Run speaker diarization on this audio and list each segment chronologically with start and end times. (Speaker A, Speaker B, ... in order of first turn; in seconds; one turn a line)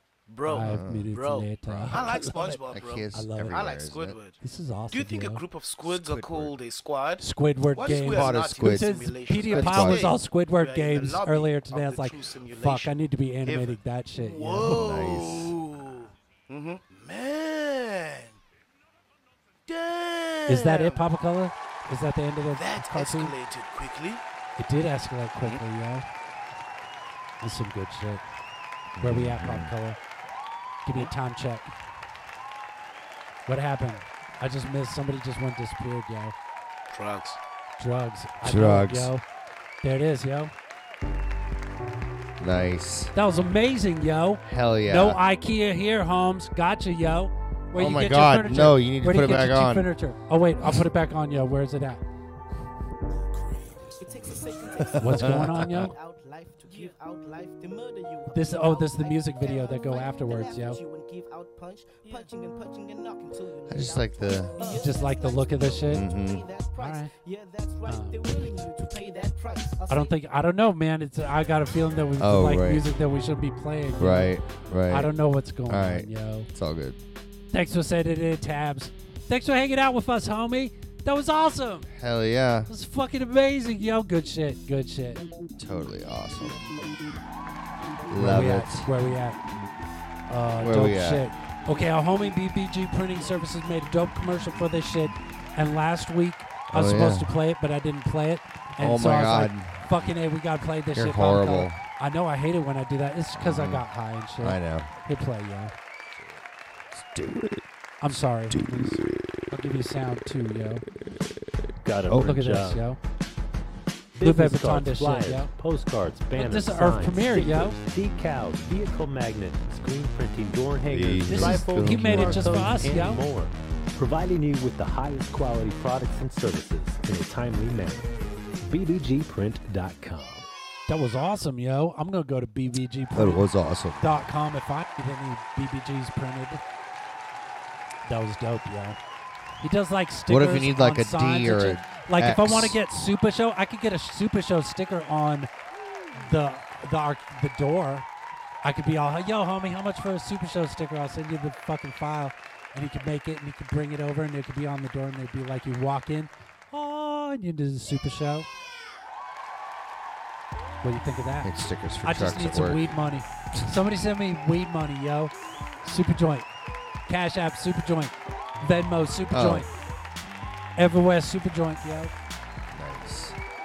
Speaker A: 0.3-4.4
Speaker B: 0.5-2.6
Speaker C: 0.5-1.1
Speaker C: 1.6-4.2
Speaker B: 3.1-3.6
Speaker B: 4.4-5.4
Speaker A: 4.9-18.4
Speaker C: 5.9-6.5
Speaker B: 7.2-14.9
Speaker C: 7.8-10.1
Speaker C: 14.6-15.5
Speaker A: 19.7-21.0
Speaker B: 20.5-23.3
Speaker A: 22.5-24.2
Speaker B: 24.6-26.1
Speaker B: 27.4-28.2
Speaker C: 28.9-29.7
Speaker B: 29.0-30.0
Speaker B: 30.8-31.7
Speaker B: 33.5-36.3
Speaker A: 36.9-37.4
Speaker B: 37.8-39.2
Speaker C: 38.4-39.1
Speaker B: 39.8-40.5
Speaker C: 42.4-43.1
Speaker B: 43.1-52.0
Speaker C: 44.4-45.2
Speaker C: 47.7-49.9
Speaker A: 54.0-70.2
Speaker B: 55.0-55.9
Speaker C: 55.1-55.7
Speaker B: 58.3-60.8
Speaker C: 63.7-64.5
Speaker B: 64.6-66.1
Speaker C: 65.8-66.4
Speaker B: 66.8-67.1
Speaker B: 67.8-68.2
Speaker B: 69.9-74.3
Speaker C: 72.2-72.8
Speaker C: 74.0-75.1
Speaker B: 74.9-76.5
Speaker C: 75.7-77.0
Speaker B: 77.5-81.9
Speaker C: 81.9-82.7
Speaker B: 82.7-85.2
Speaker C: 85.6-86.8
Speaker C: 88.1-88.9
Speaker B: 88.1-89.4
Speaker B: 90.3-105.7
Speaker C: 90.6-91.3
Speaker C: 96.7-97.3
Speaker C: 98.8-99.9
Speaker C: 100.9-101.8
Speaker C: 103.3-103.8
Speaker C: 104.4-104.9
Speaker C: 106.9-109.2
Speaker B: 108.0-110.8
Speaker D: 111.8-112.8
Speaker C: 112.1-112.5
Speaker B: 112.1-113.0
Speaker D: 114.2-128.1
Speaker B: 114.2-115.5
Speaker B: 116.3-117.8
Speaker C: 120.8-122.8
Speaker B: 121.3-123.2
Speaker D: 128.6-130.4
Speaker B: 130.9-133.4
Speaker C: 133.1-134.2
Speaker B: 134.0-136.6
Speaker B: 138.1-139.0
Speaker B: 139.6-145.5
Speaker C: 140.3-142.8
Speaker B: 146.1-148.1
Speaker B: 148.6-158.5
Speaker B: 160.8-165.3
Speaker C: 161.4-163.7
Speaker B: 165.8-166.5
Speaker B: 167.1-169.7
Speaker C: 169.3-169.7
Speaker B: 170.8-172.1
Speaker C: 172.7-173.4